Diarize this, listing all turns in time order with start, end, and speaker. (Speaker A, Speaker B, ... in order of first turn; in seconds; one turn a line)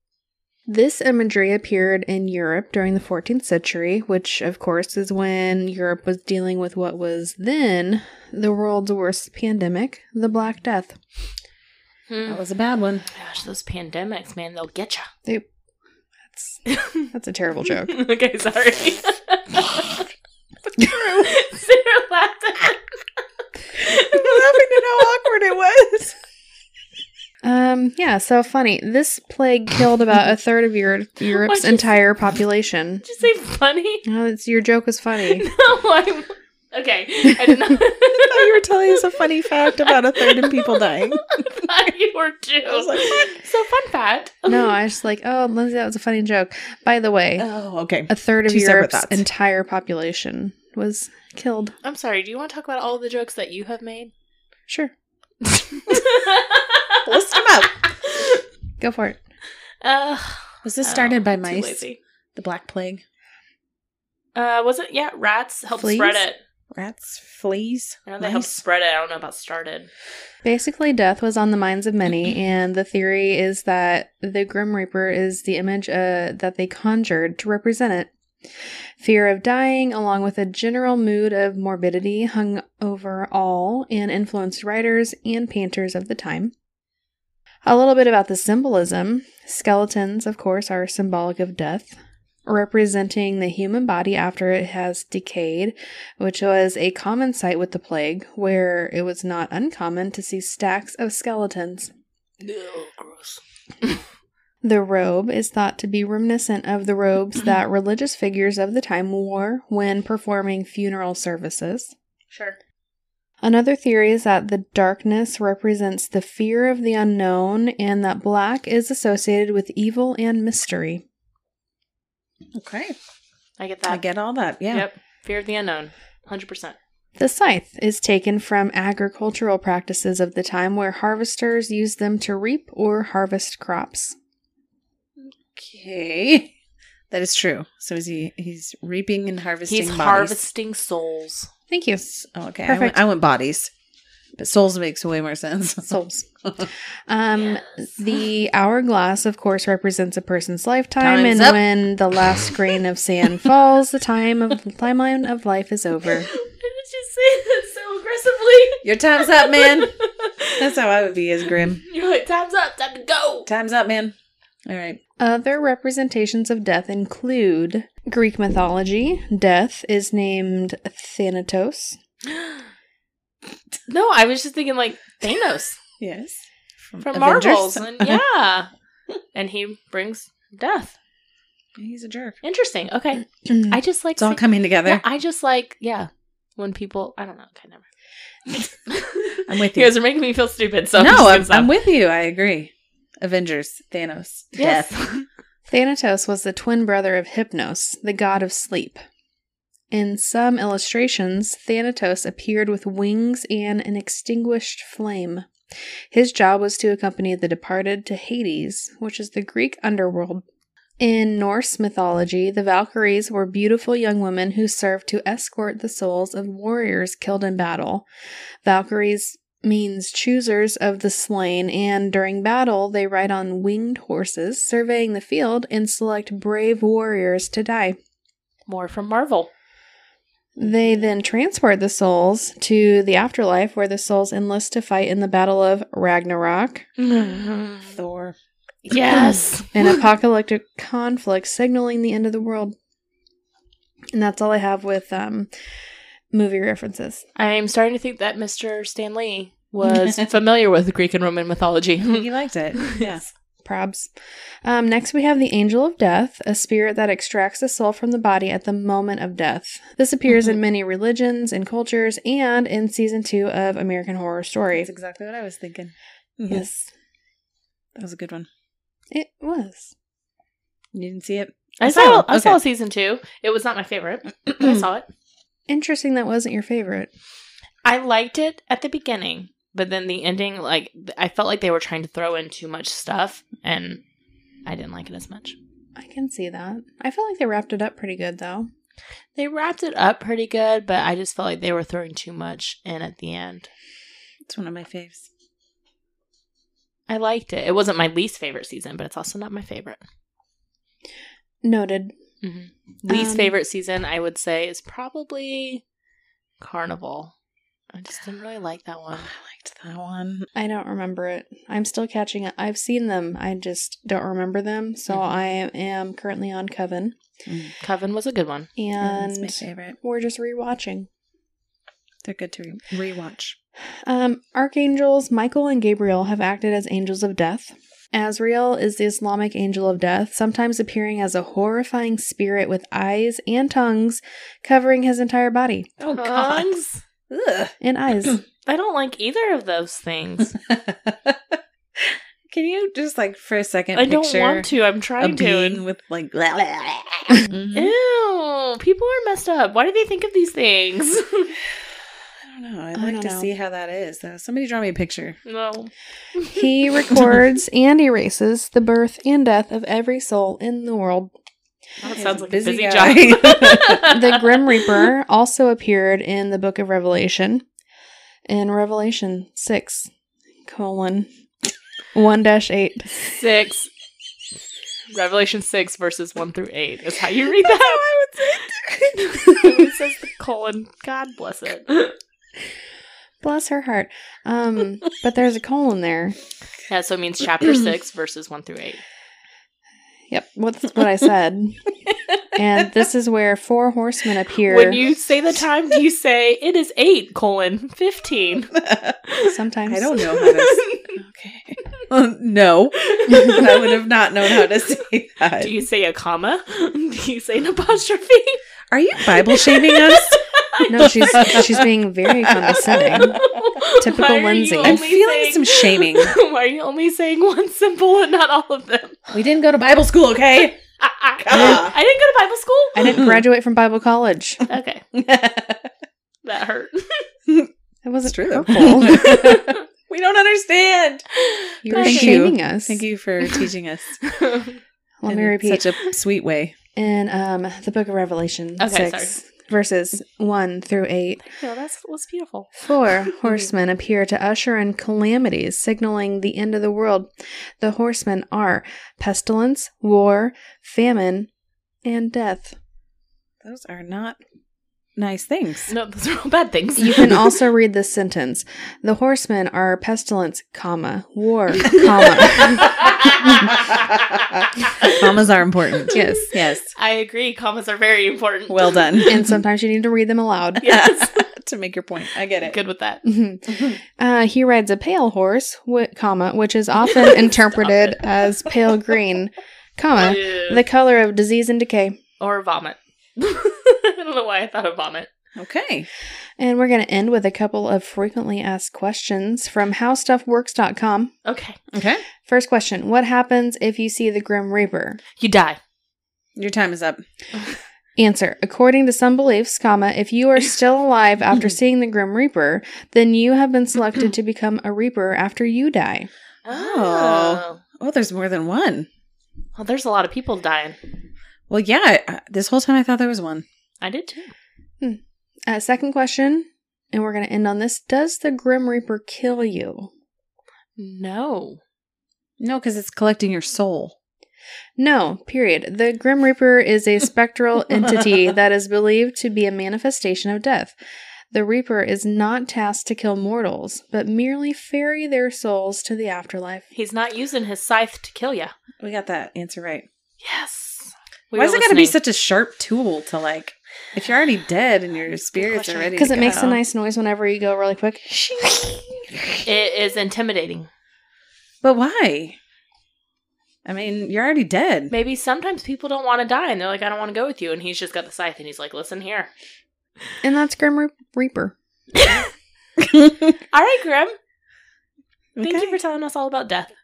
Speaker A: 0.7-11.0
Speaker B: 12.1-12.4
Speaker C: 12.3-13.1
Speaker B: 13.1-15.1
Speaker A: 16.3-16.6
Speaker B: 16.7-17.1
Speaker A: 17.1-18.0
Speaker B: 17.9-20.1
Speaker B: 20.8-23.0
Speaker B: 23.8-24.8
Speaker C: 24.0-26.2
Speaker A: 27.4-33.0
Speaker B: 31.3-32.0
Speaker B: 33.0-34.0
Speaker A: 34.1-35.5
Speaker B: 35.3-39.0
Speaker C: 38.3-41.6
Speaker B: 39.6-44.8
Speaker C: 42.7-43.3
Speaker A: 44.5-47.5
Speaker C: 47.4-49.2
Speaker A: 48.1-51.8
Speaker B: 51.8-54.1
Speaker B: 55.4-58.4
Speaker C: 57.1-57.8
Speaker A: 58.8-59.2
Speaker B: 59.8-62.0
Speaker C: 60.6-61.8
Speaker C: 62.4-63.0
Speaker B: 64.3-66.4
Speaker A: 65.8-66.2
Speaker C: 66.7-68.6
Speaker B: 68.1-69.9
Speaker A: 70.4-78.1
Speaker A: 79.0-86.5
Speaker A: 87.6-101.9
Speaker B: 102.4-103.9
Speaker A: 104.6-111.9
Speaker B: 112.3-112.6
Speaker A: 113.4-121.0
Speaker C: 122.5-123.0
Speaker B: 123.6-124.0
Speaker C: 123.9-124.9
Speaker B: 124.7-126.8
Speaker A: 127.2-134.2
Speaker C: 135.2-136.5
Speaker C: 137.1-140.4
Speaker B: 139.7-141.5
Speaker A: 141.7-143.0
Speaker C: 142.3-143.7
Speaker C: 144.4-146.7
Speaker A: 145.9-146.3
Speaker A: 147.1-156.3
Speaker C: 151.0-151.6
Speaker B: 156.2-160.7
Speaker C: 158.8-159.9
Speaker C: 160.6-161.8
Speaker B: 161.8-163.5
Speaker C: 163.5-164.2
Speaker C: 164.7-165.0
Speaker A: 165.2-172.0
Speaker B: 173.9-175.8
Speaker C: 176.0-178.2
Speaker B: 177.0-178.7
Speaker B: 179.3-181.0
Speaker C: 181.8-182.4
Speaker B: 182.4-187.8
Speaker C: 184.2-185.0
Speaker B: 188.5-191.7
Speaker C: 189.4-189.9
Speaker C: 191.0-194.9
Speaker B: 194.6-195.3
Speaker A: 195.7-199.0
Speaker A: 199.9-205.5
Speaker A: 206.1-210.4
Speaker A: 211.0-218.1
Speaker A: 218.6-228.0
Speaker B: 228.7-229.5
Speaker A: 230.6-236.9
Speaker B: 237.0-237.9
Speaker C: 237.9-238.4
Speaker B: 238.9-239.8
Speaker A: 239.7-242.8
Speaker A: 244.1-245.5
Speaker A: 246.3-247.3
Speaker B: 247.4-252.3
Speaker C: 252.0-253.2
Speaker B: 252.8-253.2
Speaker A: 253.7-254.1
Speaker A: 254.6-264.9
Speaker C: 264.8-266.7
Speaker A: 266.5-266.9
Speaker C: 268.0-268.5
Speaker A: 269.1-269.9
Speaker C: 270.9-272.6
Speaker B: 271.8-275.1
Speaker A: 275.7-277.1
Speaker B: 277.9-284.0
Speaker B: 284.7-285.6
Speaker A: 286.0-288.7
Speaker B: 289.4-293.7
Speaker C: 294.5-295.3
Speaker B: 297.1-300.0
Speaker A: 301.6-302.1
Speaker B: 302.4-305.8
Speaker A: 303.1-303.6
Speaker B: 306.6-307.3
Speaker B: 307.9-309.3
Speaker C: 309.2-310.5
Speaker A: 310.6-317.2
Speaker C: 317.5-317.7
Speaker B: 317.8-318.7
Speaker A: 318.8-321.1
Speaker C: 319.0-320.0
Speaker C: 322.2-323.6
Speaker A: 324.0-335.9
Speaker C: 336.0-336.8
Speaker B: 336.1-337.0
Speaker C: 337.3-337.7
Speaker A: 337.8-338.4
Speaker B: 338.7-340.5
Speaker C: 340.6-347.9
Speaker B: 343.9-345.8
Speaker B: 347.7-351.6
Speaker C: 352.4-355.4
Speaker A: 353.0-353.5
Speaker B: 355.4-356.6
Speaker A: 356.5-361.3
Speaker B: 362.0-364.9
Speaker C: 362.1-364.1
Speaker A: 364.0-367.6
Speaker A: 368.5-370.1
Speaker A: 370.7-371.3
Speaker A: 372.1-373.3
Speaker B: 373.2-373.9
Speaker B: 375.1-378.1
Speaker C: 377.6-379.9
Speaker B: 379.1-382.2
Speaker A: 383.4-386.4
Speaker B: 386.9-389.0
Speaker A: 390.3-391.9
Speaker A: 392.5-395.0
Speaker B: 394.7-398.8
Speaker C: 398.7-399.2
Speaker B: 399.3-399.5
Speaker A: 399.4-400.2
Speaker C: 399.9-405.7
Speaker B: 400.3-401.2
Speaker B: 403.0-404.0
Speaker B: 405.6-408.6
Speaker C: 408.9-410.4
Speaker B: 409.4-411.8
Speaker A: 410.9-413.5
Speaker C: 411.0-413.4
Speaker B: 413.0-419.2
Speaker A: 414.0-415.0
Speaker C: 414.8-416.4
Speaker C: 419.3-420.8
Speaker B: 421.0-423.2
Speaker C: 421.4-422.0
Speaker A: 423.0-424.6
Speaker C: 423.0-423.4
Speaker B: 424.7-425.0
Speaker C: 425.1-425.9
Speaker B: 426.4-427.3
Speaker A: 428.0-429.5
Speaker C: 428.2-431.3
Speaker B: 429.1-429.8
Speaker B: 431.4-432.4
Speaker A: 431.9-433.0
Speaker C: 431.9-434.2
Speaker B: 434.2-434.8
Speaker A: 435.2-436.0
Speaker C: 435.3-436.8
Speaker A: 437.0-441.5
Speaker B: 438.8-439.4
Speaker B: 441.4-442.7
Speaker A: 442.8-447.3
Speaker A: 447.8-451.5
Speaker A: 452.1-452.8
Speaker C: 453.6-454.4
Speaker C: 455.2-455.9
Speaker B: 455.9-457.4
Speaker A: 457.0-463.3
Speaker B: 462.0-465.2
Speaker C: 465.0-466.9
Speaker B: 466.1-469.3
Speaker A: 466.1-466.5
Speaker C: 468.7-469.5
Speaker A: 469.3-470.9
Speaker B: 470.8-471.5
Speaker C: 470.9-472.8
Speaker B: 472.6-473.2
Speaker A: 473.2-482.2
Speaker B: 477.1-478.2
Speaker B: 480.2-480.8
Speaker B: 482.4-485.3
Speaker C: 485.6-486.1
Speaker A: 486.6-491.3
Speaker B: 491.4-491.8
Speaker C: 491.9-492.2
Speaker A: 492.4-495.2
Speaker B: 495.4-495.8
Speaker C: 496.6-497.2
Speaker A: 498.2-506.3
Speaker B: 506.6-507.8
Speaker C: 506.7-509.1
Speaker B: 509.8-511.0
Speaker C: 511.7-513.6
Speaker B: 514.0-514.5
Speaker A: 515.0-520.1
Speaker B: 521.0-521.8
Speaker C: 522.6-524.2
Speaker A: 525.0-531.0
Speaker A: 531.5-536.9
Speaker B: 536.9-538.7
Speaker C: 539.0-540.1
Speaker B: 540.4-542.2
Speaker C: 541.5-546.8
Speaker B: 545.5-546.6
Speaker A: 546.2-549.3
Speaker B: 549.6-550.9
Speaker C: 551.8-552.6
Speaker C: 553.9-555.1
Speaker B: 555.1-559.5
Speaker A: 560.4-561.8
Speaker B: 562.1-562.5
Speaker C: 563.0-563.5
Speaker B: 563.7-564.4
Speaker C: 565.6-566.0
Speaker B: 565.6-567.0